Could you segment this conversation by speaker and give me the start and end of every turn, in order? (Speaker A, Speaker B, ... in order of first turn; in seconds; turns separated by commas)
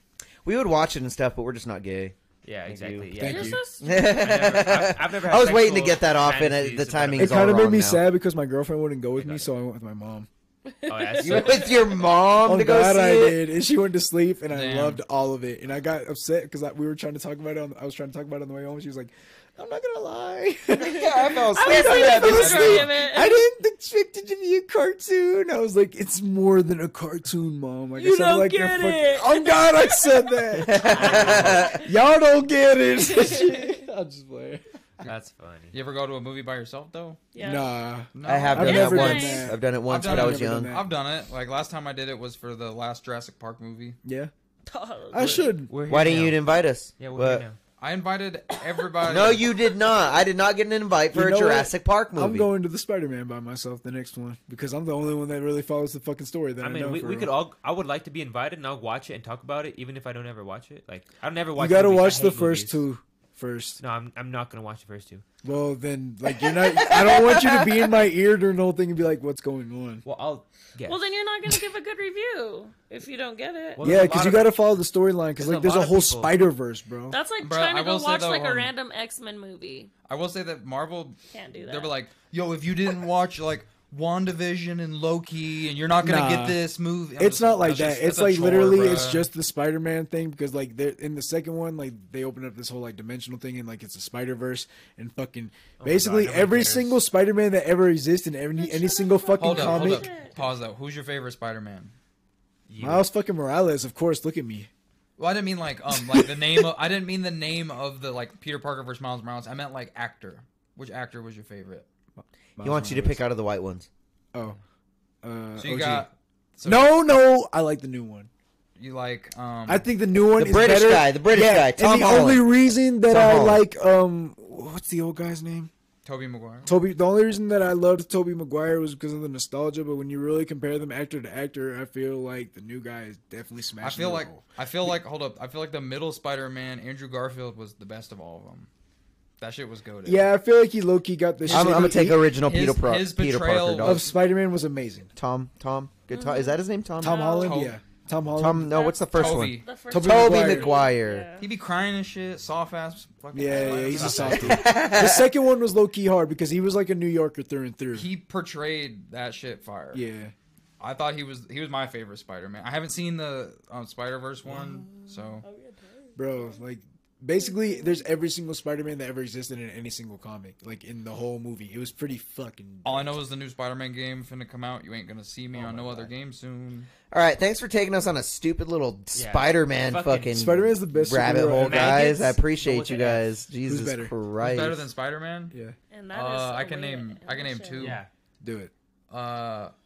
Speaker A: 0.4-3.2, Speaker B: 2.4-7.6, Speaker C: 3.1-3.6, Speaker D: 3.2-4.5, Speaker A: 3.8-8.0, Speaker C: 7.1-10.3, Speaker B: 9.2-9.5, Speaker D: 10.6-12.0, Speaker B: 10.9-11.8, Speaker A: 11.2-13.4, Speaker C: 12.4-34.6, Speaker E: 14.5-15.0, Speaker A: 20.7-22.9, Speaker D: 20.8-23.4, Speaker E: 21.9-22.9, Speaker D: 28.0-31.9, Speaker A: 30.6-31.8, Speaker B: 31.0-31.5, Speaker D: 33.1-33.8, Speaker B: 35.0-35.8, Speaker E: 35.7-37.2, Speaker D: 37.3-37.7, Speaker C: 37.4-40.9, Speaker E: 38.1-38.9, Speaker A: 38.2-40.8, Speaker D: 38.6-39.5, Speaker E: 39.9-44.0, Speaker C: 44.0-44.3, Speaker D: 44.7-45.6, Speaker C: 45.1-45.7, Speaker B: 45.2-47.6, Speaker A: 45.9-47.4, Speaker E: 47.8-49.5, Speaker A: 49.0-52.5, Speaker C: 51.1-57.4, Speaker B: 56.6-62.9, Speaker C: 61.5-63.8, Speaker B: 63.8-65.2, Speaker C: 65.4-70.0, Speaker D: 66.9-67.4, Speaker B: 70.0-71.0, Speaker D: 70.8-73.9, Speaker B: 73.7-74.6, Speaker C: 73.8-77.2, Speaker B: 75.4-76.4, Speaker D: 77.1-79.9, Speaker E: 77.4-78.7, Speaker E: 80.1-89.3, Speaker D: 81.3-81.9, Speaker C: 86.0-86.6, Speaker C: 87.2-100.1, Speaker B: 95.8-97.0, Speaker D: 98.6-100.4, Speaker E: 99.4-101.9, Speaker B: 102.7-103.1, Speaker C: 102.8-104.7, Speaker E: 105.2-111.9, Speaker C: 105.9-106.7, Speaker C: 112.2-113.2, Speaker A: 112.6-113.9, Speaker C: 114.3-114.6, Speaker C: 115.2-116.1, Speaker E: 115.6-117.0, Speaker C: 116.6-118.3, Speaker E: 118.8-119.9, Speaker C: 119.7-125.7, Speaker A: 120.3-122.5, Speaker A: 123.1-123.6, Speaker E: 126.0-126.7, Speaker C: 126.6-134.9, Speaker E: 133.8-138.7, Speaker E: 139.4-140.3, Speaker C: 140.0-142.2, Speaker E: 141.4-144.1, Speaker A: 141.5-144.1, Speaker C: 143.8-145.1, Speaker A: 145.1-147.3, Speaker D: 146.1-147.7, Speaker C: 147.0-148.9, Speaker E: 147.2-147.8, Speaker A: 148.3-151.3, Speaker D: 148.7-151.5, Speaker E: 149.1-149.7, Speaker C: 149.9-150.7, Speaker E: 151.4-154.6, Speaker C: 153.3-158.1, Speaker D: 153.4-153.9, Speaker B: 153.9-154.6, Speaker A: 154.4-155.3, Speaker E: 157.9-160.0, Speaker C: 159.9-160.3, Speaker E: 160.8-165.4, Speaker D: 164.5-166.6, Speaker C: 166.2-173.2, Speaker D: 167.4-168.1, Speaker E: 172.8-176.9, Speaker B: 175.5-176.1, Speaker A: 177.1-184.9, Speaker B: 179.1-180.5, Speaker C: 180.3-182.2, Speaker B: 181.6-183.4, Speaker C: 183.6-184.1, Speaker E: 184.4-185.5, Speaker D: 185.9-188.0, Speaker E: 186.1-188.0, Speaker B: 187.8-188.1, Speaker C: 188.4-188.7, Speaker E: 189.1-189.7